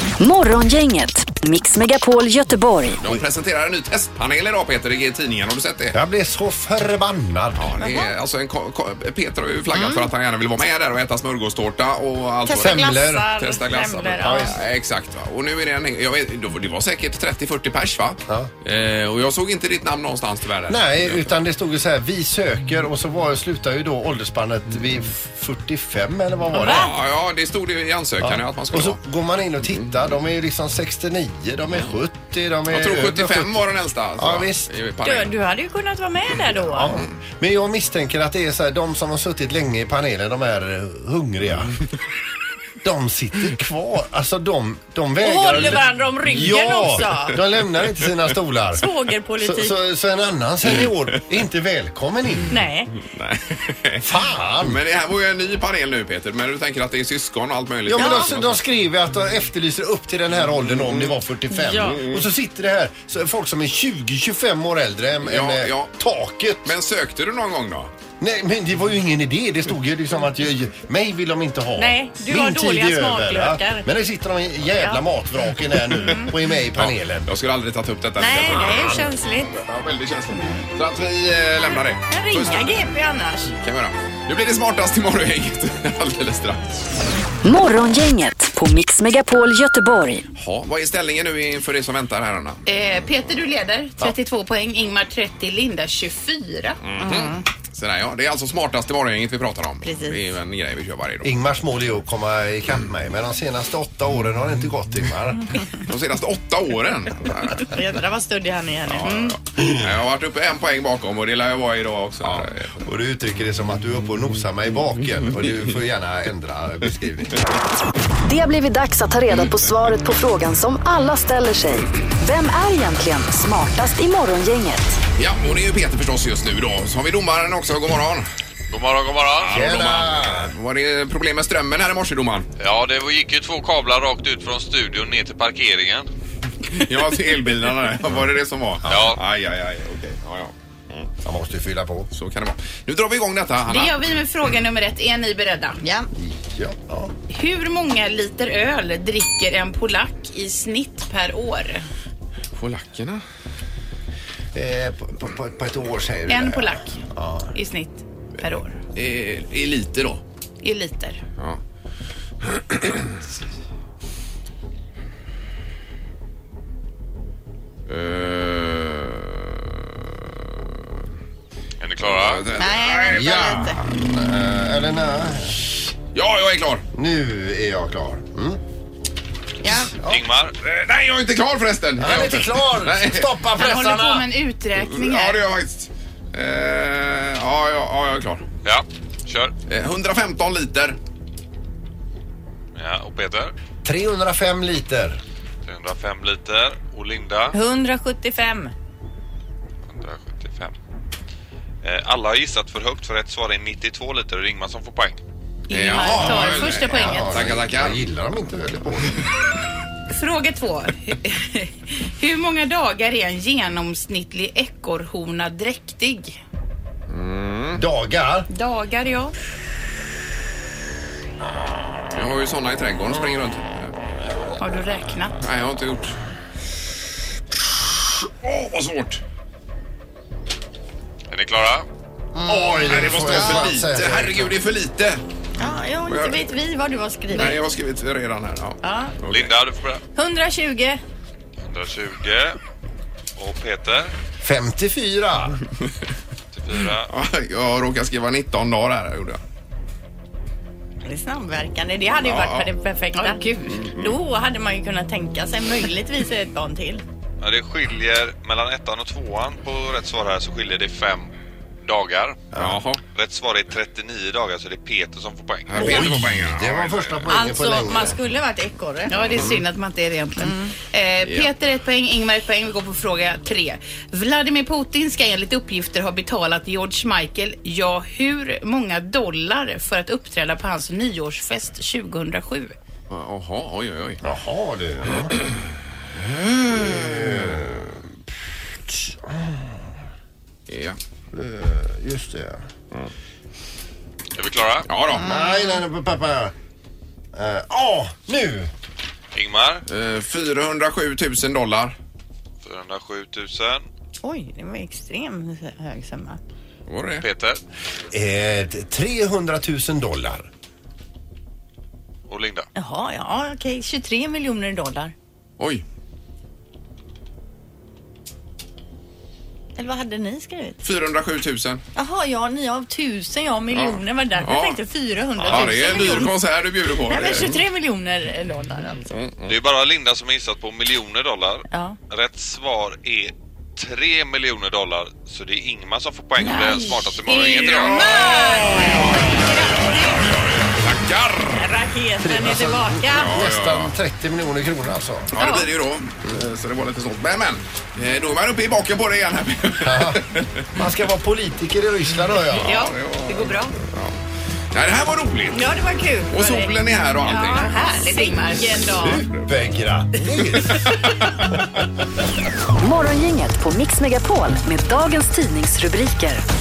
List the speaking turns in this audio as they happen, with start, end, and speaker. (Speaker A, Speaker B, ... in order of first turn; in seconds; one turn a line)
Speaker A: 0.2-3.0
Speaker B: 3.0-6.0
Speaker C: 5.9-7.6
Speaker B: 7.5-21.3
Speaker D: 7.8-8.1
Speaker D: 9.7-10.0
Speaker D: 12.4-14.5
Speaker C: 12.5-13.3
Speaker C: 14.2-14.6
Speaker C: 20.7-26.9
Speaker D: 26.5-26.9
Speaker B: 26.6-29.0
Speaker C: 28.2-33.6
Speaker B: 32.7-35.4
Speaker C: 34.2-34.7
Speaker D: 35.0-36.9
Speaker C: 36.5-41.8
Speaker C: 42.8-48.9
Speaker D: 45.2-47.4
Speaker D: 48.7-49.7
Speaker C: 49.4-52.6
Speaker B: 50.7-51.2
Speaker D: 52.5-52.9
Speaker B: 53.0-58.6
Speaker C: 54.0-54.8
Speaker C: 57.9-66.8
Speaker D: 57.9-58.3
Speaker B: 60.7-61.2
Speaker D: 61.5-62.0
Speaker B: 61.8-62.2
Speaker B: 65.2-65.9
Speaker B: 66.6-67.9
Speaker C: 68.2-77.3
Speaker D: 71.8-73.8
Speaker D: 76.0-76.3
Speaker B: 76.7-82.8
Speaker D: 78.2-79.5
Speaker D: 80.3-80.6
Speaker D: 82.1-83.5
Speaker B: 83.6-86.8
Speaker A: 87.4-90.2
Speaker B: 90.3-92.6
Speaker E: 92.7-96.8
Speaker B: 96.8-101.3
Speaker D: 97.0-97.4
Speaker D: 99.8-100.2
Speaker C: 101.2-105.5
Speaker B: 105.8-107.8
Speaker D: 107.6-109.3
Speaker B: 108.9-112.7
Speaker C: 112.2-117.4
Speaker A: 118.2-125.0
Speaker B: 125.2-128.3
Speaker F: 128.7-129.5
Speaker B: 129.4-132.5
Speaker C: 129.5-130.5
Speaker F: 132.6-136.1
Speaker B: 136.7-141.1
Speaker F: 138.9-139.2
Speaker C: 141.2-142.1
Speaker B: 142.1-144.1
Speaker E: 143.7-145.8
Speaker D: 145.8-146.1
Speaker C: 146.2-147.1
Speaker E: 147.3-151.8
Speaker B: 152.5-153.2
Speaker C: 154.5-157.5
Speaker E: 156.3-157.0
Speaker E: 157.5-158.7
Speaker B: 158.9-160.2
Speaker E: 160.6-161.2
Speaker B: 162.4-163.1
Speaker B: 167.9-169.7
Speaker F: 171.8-172.5
Speaker B: 172.0-173.7
Speaker D: 172.6-173.8
Speaker C: 173.1-175.7
Speaker B: 176.1-176.8
Speaker C: 176.9-178.6
Speaker D: 179.6-179.9
Speaker C: 179.7-180.1
Speaker F: 180.1-180.5
Speaker B: 180.6-183.3
Speaker C: 182.0-184.2
Speaker E: 183.5-185.4
Speaker B: 184.7-188.4
Speaker F: 188.6-189.5
Speaker B: 189.7-191.0
Speaker F: 192.7-193.5
Speaker C: 193.8-195.2
Speaker F: 195.7-197.5
Speaker D: 197.5-198.7
Speaker F: 199.9-200.7
Speaker F: 201.8-205.2
Speaker E: 205.7-207.3
Speaker B: 205.7-208.1
Speaker C: 206.2-209.2
Speaker E: 210.1-216.4
Speaker B: 217.1-217.8
Speaker C: 217.7-218.5
Speaker E: 218.5-219.3
Speaker B: 222.1-223.9
Speaker E: 224.6-225.3
Speaker B: 225.4-226.2
Speaker B: 228.4-229.2
Speaker F: 231.3-231.9
Speaker D: 232.3-233.7
Speaker C: 232.4-234.5
Speaker B: 232.8-235.2
Speaker D: 235.6-237.6
Speaker B: 236.1-236.4
Speaker B: 237.3-239.6
Speaker D: 238.8-239.1
Speaker F: 239.3-240.0
Speaker D: 240.1-241.0
Speaker F: 241.7-242.6
Speaker F: 243.4-244.1
Speaker C: 244.4-245.6
Speaker F: 246.5-247.1
Speaker B: 247.0-249.4
Speaker D: 251.0-257.0
Speaker B: 252.2-252.7
Speaker E: 253.1-253.8
Speaker B: 253.7-254.2
Speaker F: 257.4-261.3
Speaker F: 261.8-262.4
Speaker C: 262.5-262.8
Speaker B: 262.6-263.0
Speaker F: 263.1-265.7
Speaker B: 265.7-267.3
Speaker C: 265.7-268.2
Speaker D: 267.3-269.4
Speaker E: 269.1-282.7
Speaker D: 270.4-270.7
Speaker B: 271.2-271.5
Speaker B: 283.1-284.2
Speaker C: 284.2-285.4
Speaker B: 286.3-287.5
Speaker C: 286.7-288.1
Speaker C: 288.9-289.9
Speaker B: 290.7-291.0
Speaker C: 291.3-292.6
Speaker F: 294.4-294.9
Speaker B: 294.9-295.2
Speaker D: 295.2-295.8
Speaker C: 295.2-296.5
Speaker C: 297.3-298.7
Speaker F: 299.3-299.8
Speaker B: 299.9-302.0
Speaker F: 302.6-303.8
Speaker D: 304.2-306.4
Speaker B: 306.9-307.2
Speaker F: 307.2-307.6
Speaker C: 308.1-310.5
Speaker F: 312.3-312.7
Speaker D: 312.7-315.1
Speaker B: 315.6-315.8
Speaker D: 319.8-320.8
Speaker B: 320.8-321.8
Speaker D: 321.9-326.3
Speaker B: 323.7-324.8
Speaker B: 325.4-327.6
Speaker D: 327.1-329.1
Speaker B: 329.1-329.5
Speaker F: 329.4-338.0
Speaker D: 331.7-331.9
Speaker D: 336.4-340.1
Speaker B: 337.4-341.7
Speaker D: 341.5-343.3
Speaker C: 342.2-345.3
Speaker B: 343.1-343.9
Speaker B: 345.3-350.5
Speaker D: 345.4-345.6
Speaker C: 349.8-350.2
Speaker C: 350.7-352.7
Speaker B: 352.5-354.2
Speaker D: 353.3-353.6
Speaker B: 354.7-355.7
Speaker D: 355.5-356.7
Speaker B: 356.3-358.2
Speaker E: 357.2-359.1
Speaker D: 357.3-359.2
Speaker B: 358.9-359.3
Speaker C: 359.3-360.9
Speaker A: 362.8-366.4